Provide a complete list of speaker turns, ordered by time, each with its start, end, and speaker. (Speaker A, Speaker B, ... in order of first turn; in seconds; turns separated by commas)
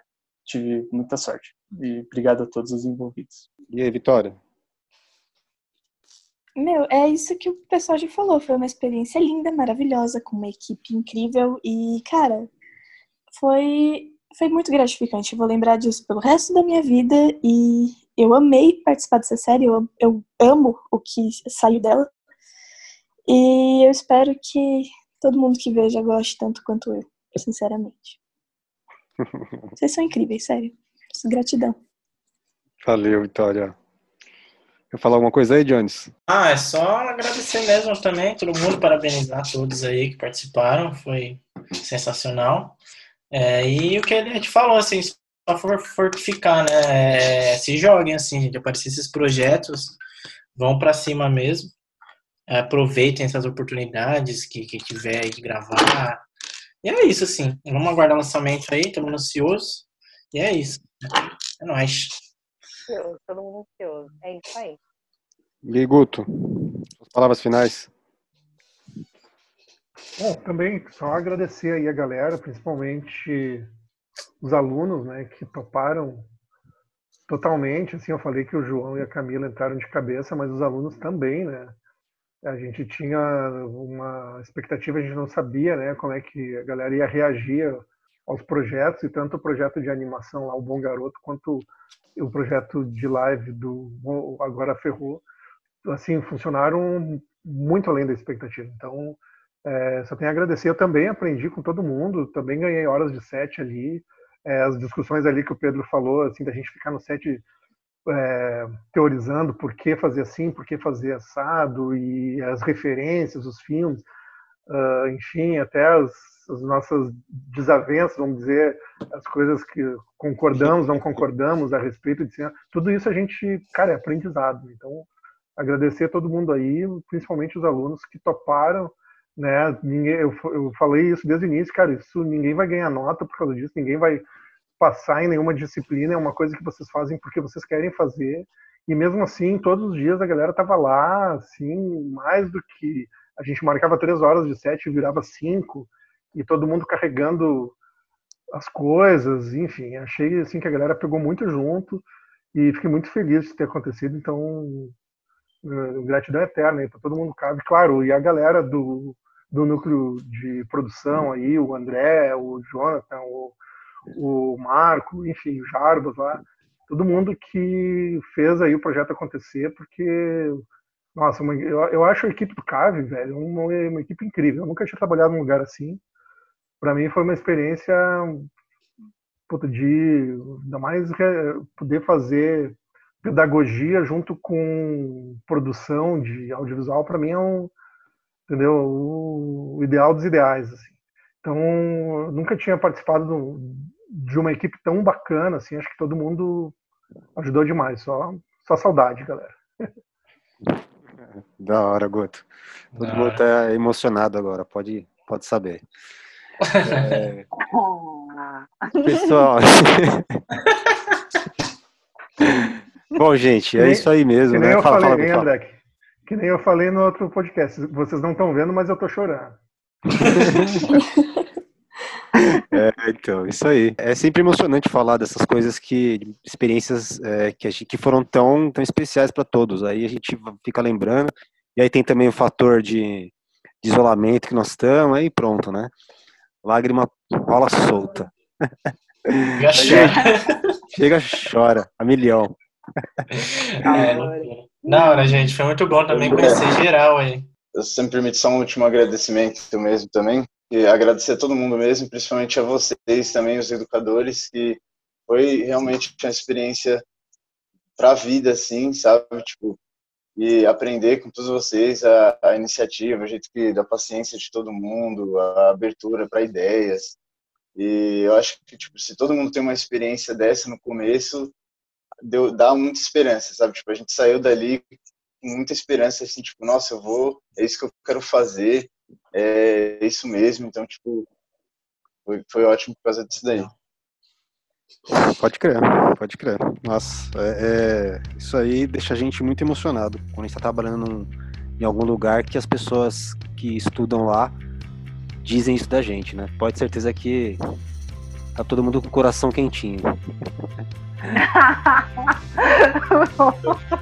Speaker A: 0.5-3.5, Speaker B: 3.7-4.4, Speaker C: 6.5-12.5, Speaker C: 13.3-22.1, Speaker C: 23.3-28.2, Speaker B: 29.2-29.6, Speaker C: 29.8-31.8, Speaker B: 32.8-33.8, Speaker B: 34.9-36.1, Speaker D: 36.3-42.8, Speaker D: 43.3-50.0, Speaker D: 50.5-51.7, Speaker D: 52.5-56.2, Speaker D: 56.8-60.8, Speaker D: 61.6-62.1, Speaker E: 62.9-64.8, Speaker B: 65.6-67.9, Speaker F: 70.2-73.7, Speaker F: 74.4-76.3, Speaker F: 77.3-81.8, Speaker F: 82.4-95.2, Speaker F: 95.8-107.4, Speaker F: 108.0-114.0, Speaker F: 114.7-134.2, Speaker F: 134.8-147.8, Speaker F: 148.5-154.9, Speaker F: 155.6-163.6, Speaker F: 164.1-170.6, Speaker F: 171.1-176.0, Speaker F: 176.8-178.5, Speaker F: 179.5-187.7, Speaker F: 188.5-196.7, Speaker F: 197.3-199.6, Speaker B: 200.6-205.8, Speaker D: 202.9-203.4, Speaker D: 206.7-207.3, Speaker B: 206.8-207.4, Speaker E: 207.6-209.3, Speaker B: 209.0-210.4, Speaker D: 210.7-210.9, Speaker B: 213.2-215.5, Speaker F: 213.8-219.6, Speaker B: 220.2-220.8, Speaker D: 220.4-220.9, Speaker B: 222.4-235.9, Speaker B: 236.6-238.3, Speaker B: 239.3-240.2, Speaker D: 239.6-240.8, Speaker B: 240.9-243.0, Speaker D: 243.3-247.5, Speaker E: 243.9-245.5, Speaker G: 246.1-246.6, Speaker G: 247.7-257.0, Speaker G: 258.0-259.8, Speaker G: 260.4-267.2, Speaker G: 267.8-271.5, Speaker G: 272.2-274.9, Speaker G: 275.4-281.3, Speaker G: 282.2-283.7, Speaker D: 283.3-283.7, Speaker B: 285.2-294.6, Speaker B: 295.4-297.6, Speaker B: 298.6-300.1, Speaker E: 301.3-303.8